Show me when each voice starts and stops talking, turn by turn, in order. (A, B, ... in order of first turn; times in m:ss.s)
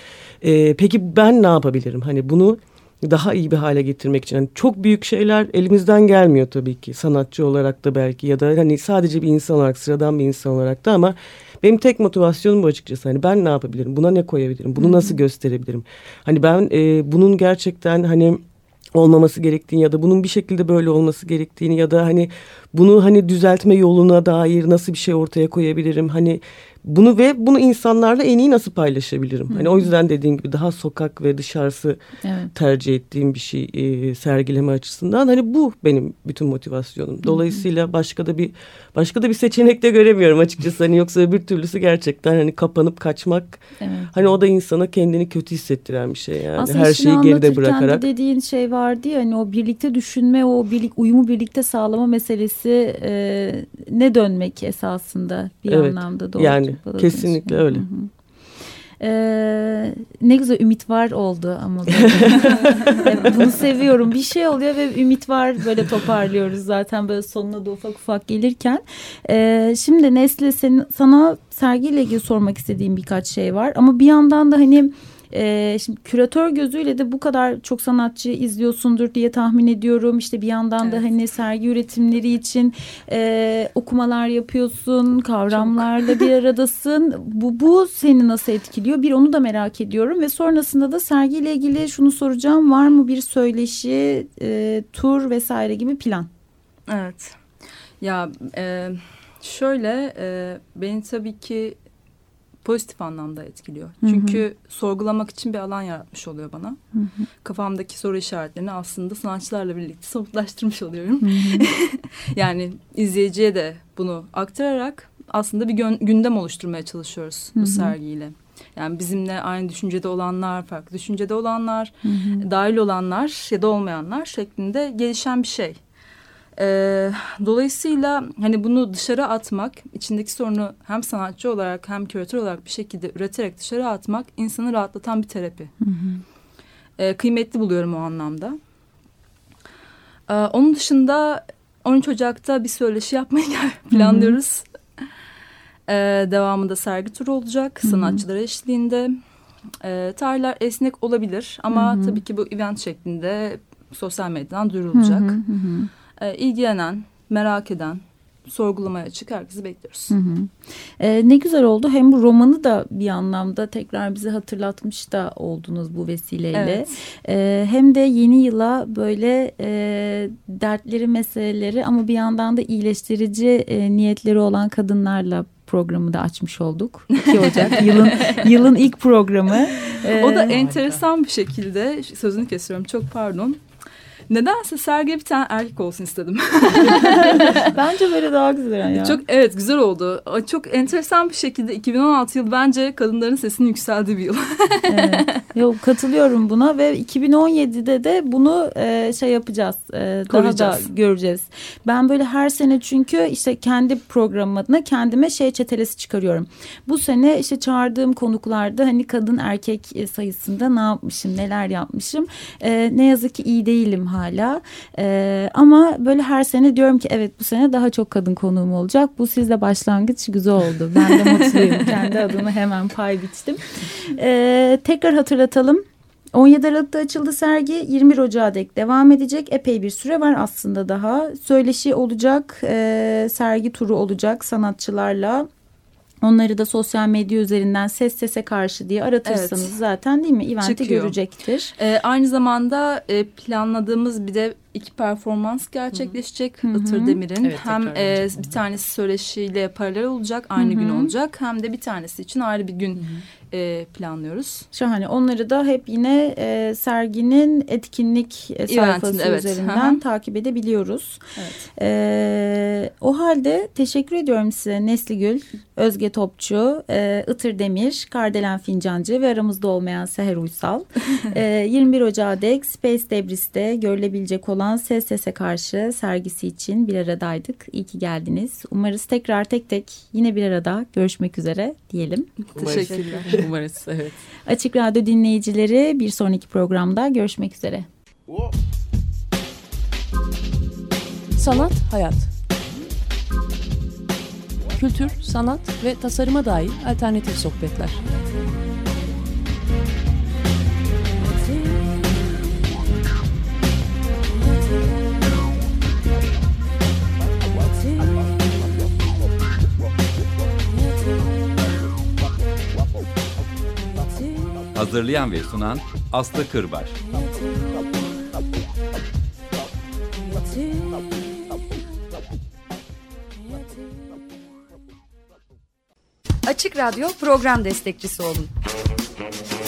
0:00.4-0:18.4 A
0:14.8-0:15.2 B
0:19.0-0:32.0 A
0:29.5-0:29.9 B
0:32.2-0:32.5 B
0:32.5-0:43.6 A
0:37.2-0:37.6 B
0:43.8-0:44.1 B
0:44.1-0:48.0 A
0:46.6-0:58.1 B
0:55.7-0:57.8 A
0:59.0-1:36.3 B
1:01.9-1:03.0 A
1:36.9-1:37.4 C
1:38.0-1:41.8 C
1:42.6-1:46.8 C
1:44.0-1:44.4 B
1:47.0-1:47.3 B
1:47.4-2:05.8 C
1:51.2-1:51.7 B
1:57.6-1:58.0 B
2:02.0-2:02.5 B
2:06.6-2:15.7 C
2:15.8-2:16.2 B
2:17.0-2:18.6 C
2:20.3-2:24.6 C
2:23.9-2:24.4 B
2:25.9-2:29.1 C
2:27.8-2:28.2 B
2:29.8-2:35.4 C
2:31.7-2:32.2 B
2:34.9-2:35.9 B
2:36.2-2:40.1 C
2:40.1-3:00.6 B
2:46.6-2:47.0 C
2:57.1-2:58.5 C
2:59.8-3:03.6 C
3:00.2-3:01.0 D
3:04.3-3:07.7 C
3:06.9-3:09.2 B
3:08.9-3:15.4 C
3:14.9-3:55.5 B
3:20.3-3:20.8 C
3:41.1-3:42.1 C
3:56.2-4:01.7 B
3:59.3-3:59.8 C
4:00.6-4:01.2 C
4:01.8-4:14.7 C
4:05.9-4:06.2 D
4:06.6-4:07.2 B
4:07.4-4:08.6 D
4:10.6-4:11.1 B
4:13.0-4:13.2 D
4:14.7-4:21.2 B
4:18.7-4:20.0 C
4:21.4-4:21.7 C
4:21.8-4:42.3 B
4:42.6-4:43.4 C
4:42.6-4:43.4 A
4:42.6-4:44.2 D
4:44.5-4:47.9 B
4:51.4-4:52.3 E
4:54.7-4:58.0 E
5:14.8-5:17.0 F
5:26.5-5:28.5 G